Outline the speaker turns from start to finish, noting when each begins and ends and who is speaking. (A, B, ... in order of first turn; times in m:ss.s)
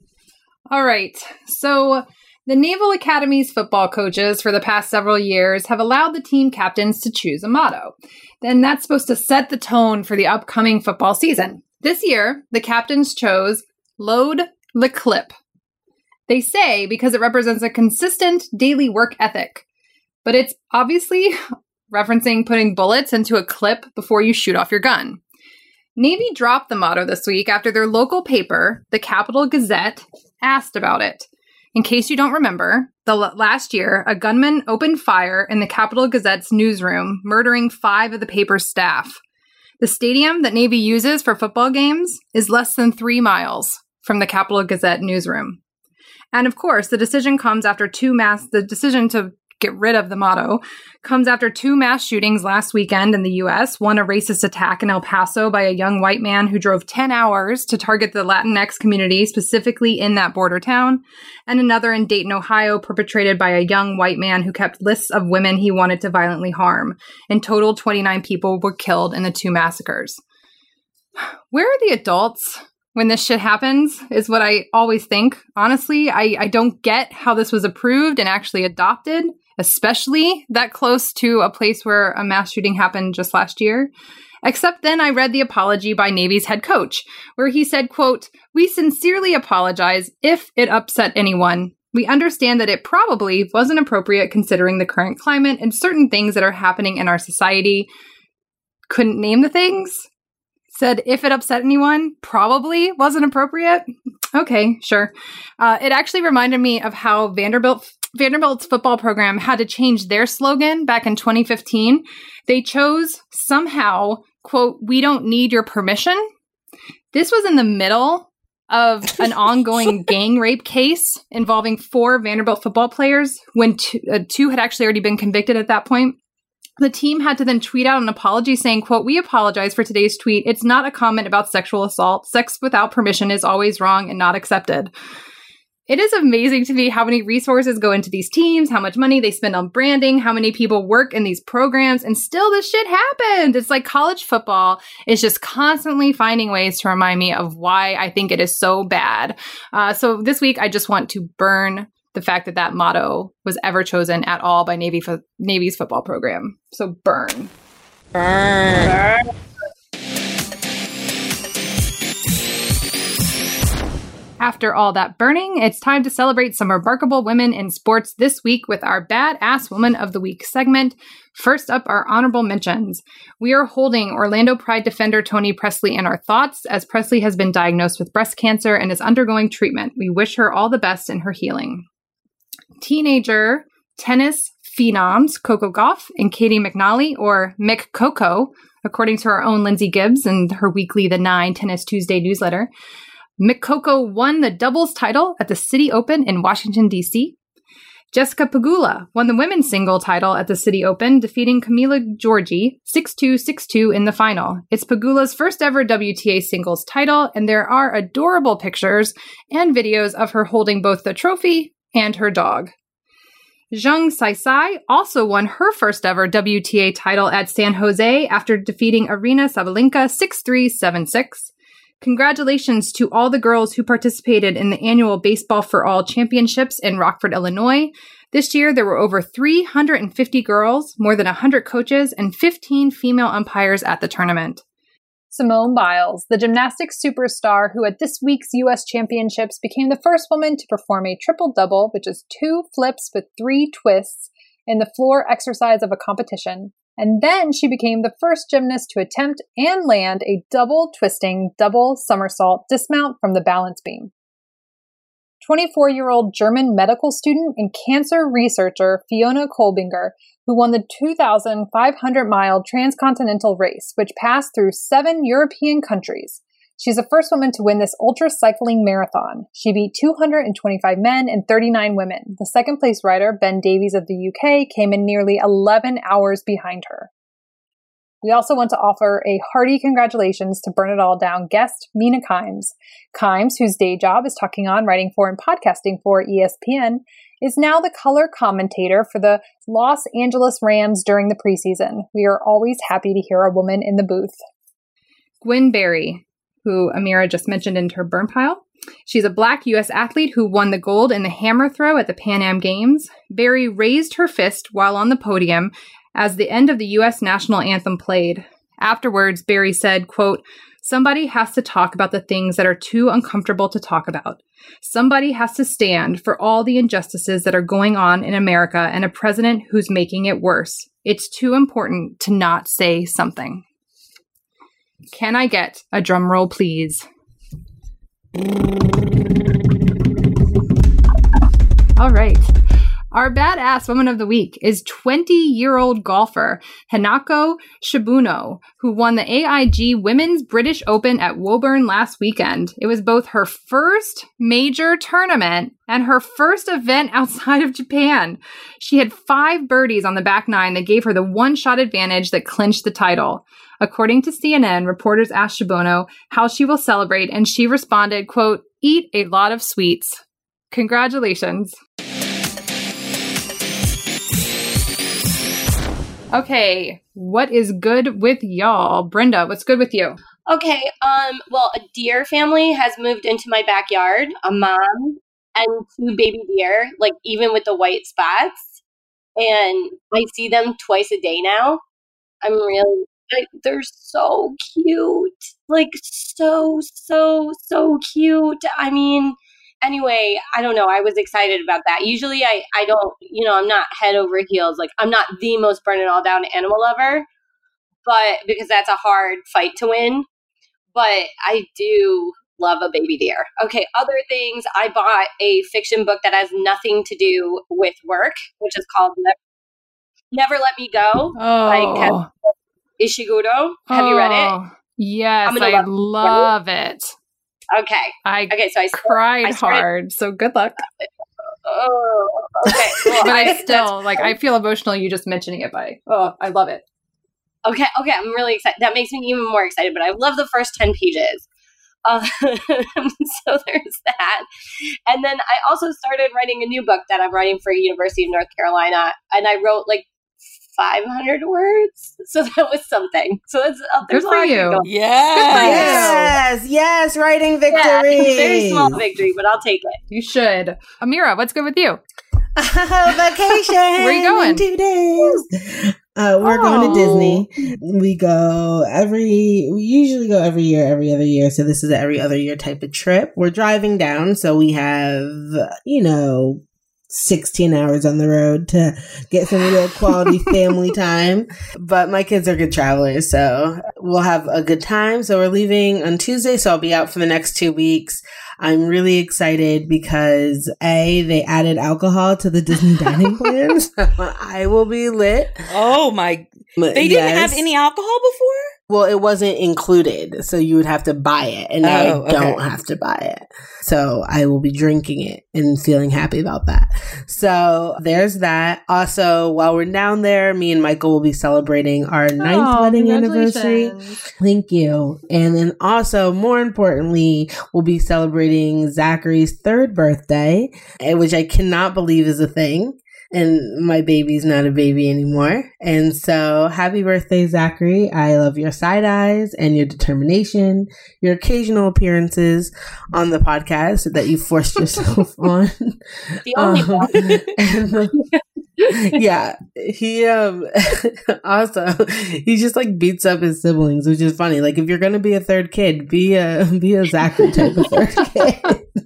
0:00.7-0:15.4 A
0:16.3-0:19.6 A
0:20.2-0:21.4 A
0:21.9-0:25.2 A
0:26.0-0:39.2 A
0:39.8-0:45.6 A
0:46.3-1:10.2 A
1:11.5-1:23.9 A
1:24.4-1:37.9 A
1:38.9-1:40.1 A
1:40.7-1:56.3 A
1:57.1-2:06.2 A
2:06.8-2:14.9 A
2:15.9-2:37.5 A
2:38.1-2:39.0 B
2:44.4-3:01.9 A
3:02.8-3:12.7 A
3:13.4-3:17.4 A
3:18.1-3:32.7 A
3:33.7-3:41.5 A
3:42.0-3:54.6 A
3:55.3-4:14.1 A
4:15.4-4:37.1 A
4:38.2-4:54.4 A
4:55.4-5:23.6 A
5:25.1-5:27.0 A
5:32.0-5:32.5 A
5:33.1-6:01.8 A
6:06.3-6:10.2 A
6:10.5-6:18.8 C
6:19.4-6:21.8 C
6:22.4-6:37.3 C
6:38.0-6:40.3 C
6:41.0-6:49.4 C
6:50.3-6:54.6 C
6:51.4-6:52.3 A
6:53.9-6:57.1 A
6:55.5-6:56.5 C
6:57.7-6:59.8 C
6:58.3-7:00.8 A
7:00.8-7:04.3 C
7:03.2-7:06.8 A
7:07.6-7:11.5 C
7:12.0-7:14.5 C
7:15.1-7:20.1 C
7:20.7-7:24.9 C
7:24.1-7:24.8 A
7:24.8-7:26.1 B
7:25.4-7:26.3 A
7:25.6-7:29.0 D
7:27.7-7:30.0 C
7:30.1-7:32.0 A
7:32.6-8:05.6 D
7:34.0-7:34.6 A
7:36.4-7:37.2 A
7:36.8-7:37.4 C
8:05.7-8:08.7 B
8:06.8-8:07.6 D
8:08.9-8:46.0 D
8:11.8-8:12.6 B
8:22.4-8:24.2 A
8:46.5-8:49.2 C
8:46.5-8:48.1 D
8:48.9-8:58.8 D